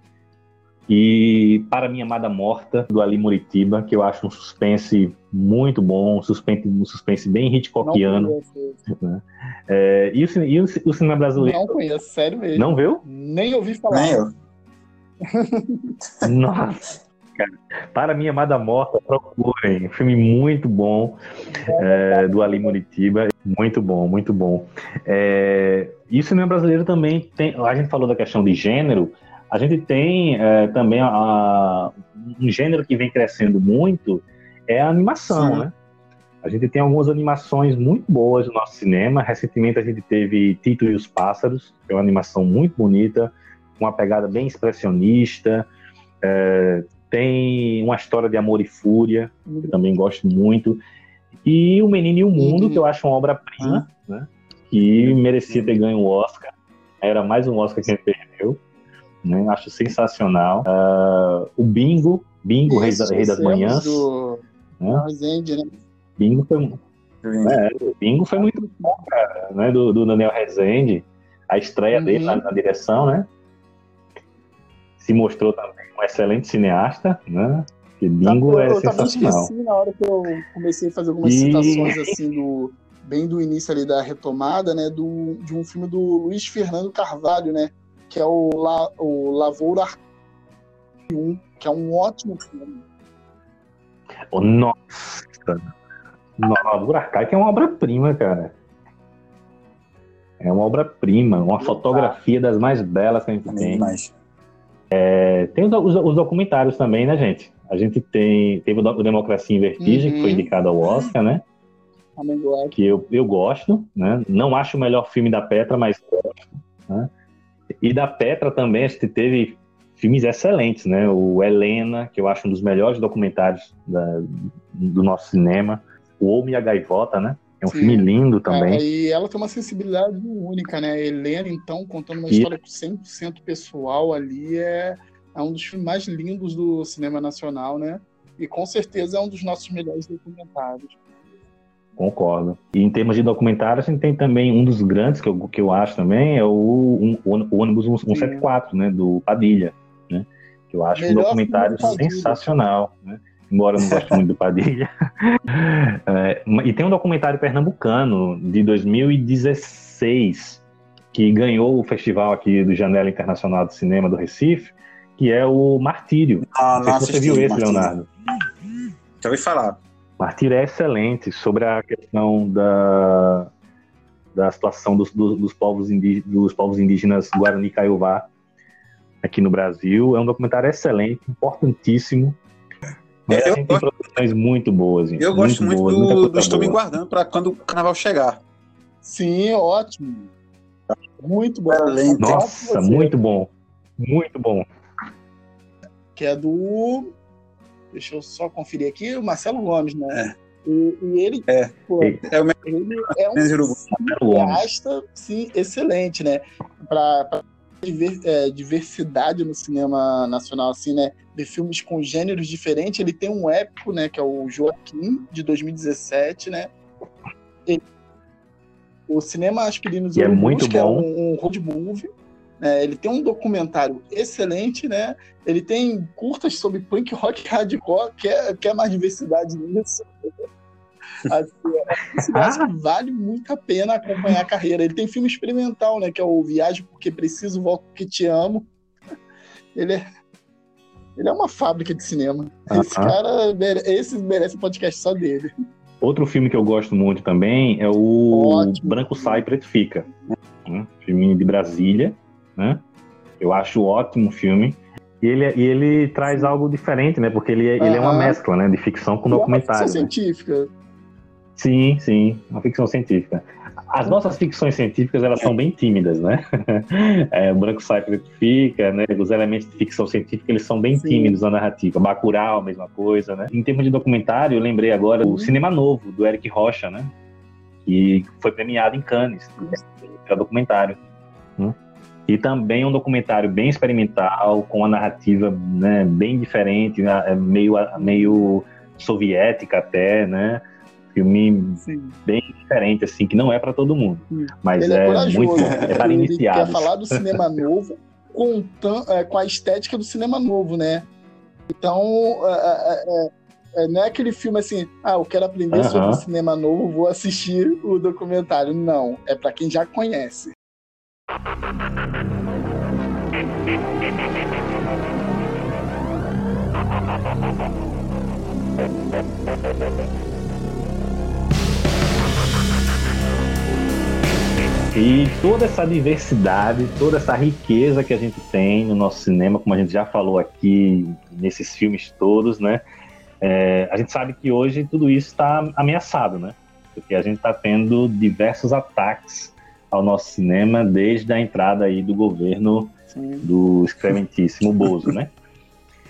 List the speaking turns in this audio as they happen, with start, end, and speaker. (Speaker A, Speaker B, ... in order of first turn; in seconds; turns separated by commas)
Speaker A: 0.9-8.3, Speaker B: 7.8-8.8, Speaker A: 8.9-11.8, Speaker B: 11.4-14.2, Speaker A: 12.6-13.0, Speaker C: 13.9-14.3, Speaker B: 15.2-15.9, Speaker A: 16.2-21.2, Speaker B: 21.5-22.7, Speaker A: 21.7-35.7, Speaker C: 35.3-35.7, Speaker A: 36.4-45.7, Speaker A: 46.2-50.8, Speaker B: 49.5-49.8, Speaker A: 51.5-56.5, Speaker B: 52.4-52.8, Speaker A: 57.0-58.6, Speaker A: 59.2-64.1, Speaker B: 62.7-65.7, Speaker A: 66.2-66.8, Speaker C: 67.2-67.6, Speaker A: 67.4-73.3, Speaker B: 68.4-69.0, Speaker B: 71.9-72.4, Speaker A: 75.0-79.5, Speaker B: 78.2-90.0, Speaker A: 81.2-82.1, Speaker B: 91.1-92.8, Speaker A: 94.3-95.7, Speaker A: 96.4-98.5, Speaker A: 100.4-103.9, Speaker B: 101.6-102.2, Speaker C: 103.5-104.1, Speaker A: 104.9-111.4, Speaker B: 109.8-110.5, Speaker B: 112.2-112.7, Speaker A: 112.7-117.1, Speaker A: 117.8-128.8, Speaker B: 127.7-141.0, Speaker A: 132.3-132.5, Speaker A: 142.0-160.6, Speaker B: 148.1-148.5, Speaker B: 150.9-152.5, Speaker C: 153.8-154.2, Speaker A: 161.1-168.1, Speaker C: 166.5-167.9, Speaker C: 169.2-169.8, Speaker A: 170.2-173.5, Speaker A: 174.3-178.3, Speaker A: 179.2-182.4, Speaker A: 183.3-186.8, Speaker C: 183.3-184.0, Speaker C: 185.2-188.4, Speaker B: 189.0-190.3, Speaker B: 191.2-193.1, Speaker C: 191.7-192.4, Speaker A: 192.2-194.7, Speaker B: 196.2-197.1, Speaker B: 197.9-216.7, Speaker C: 201.5-203.8, Speaker A: 203.9-204.7, Speaker B: 219.1-222.1, Speaker A: 220.2-221.1, Speaker B: 222.6-230.1, Speaker B: 231.3-238.7, Speaker A: 232.3-232.7, Speaker B: 239.7-240.0, Speaker B: 241.2-245.5, Speaker A: 242.7-243.2, Speaker A: 246.0-250.1, Speaker B: 248.3-249.4, Speaker A: 250.7-252.8, Speaker A: 253.4-260.1, Speaker B: 256.3-256.5, Speaker B: 257.8-258.4, Speaker B: 259.3-260.7, Speaker A: 261.6-277.1, Speaker B: 270.9-271.4, Speaker B: 275.2-275.6, Speaker A: 277.9-281.0, Speaker A: 282.3-290.6, Speaker B: 288.0-288.5, Speaker A: 291.1-297.4, Speaker B: 291.8-292.2, Speaker B: 294.3-301.1, Speaker C: 295.6-296.0, Speaker B: 301.7-310.5, Speaker A: 305.7-306.2, Speaker A: 324.9-332.8, Speaker A: 333.4-345.3, Speaker B: 343.1-343.5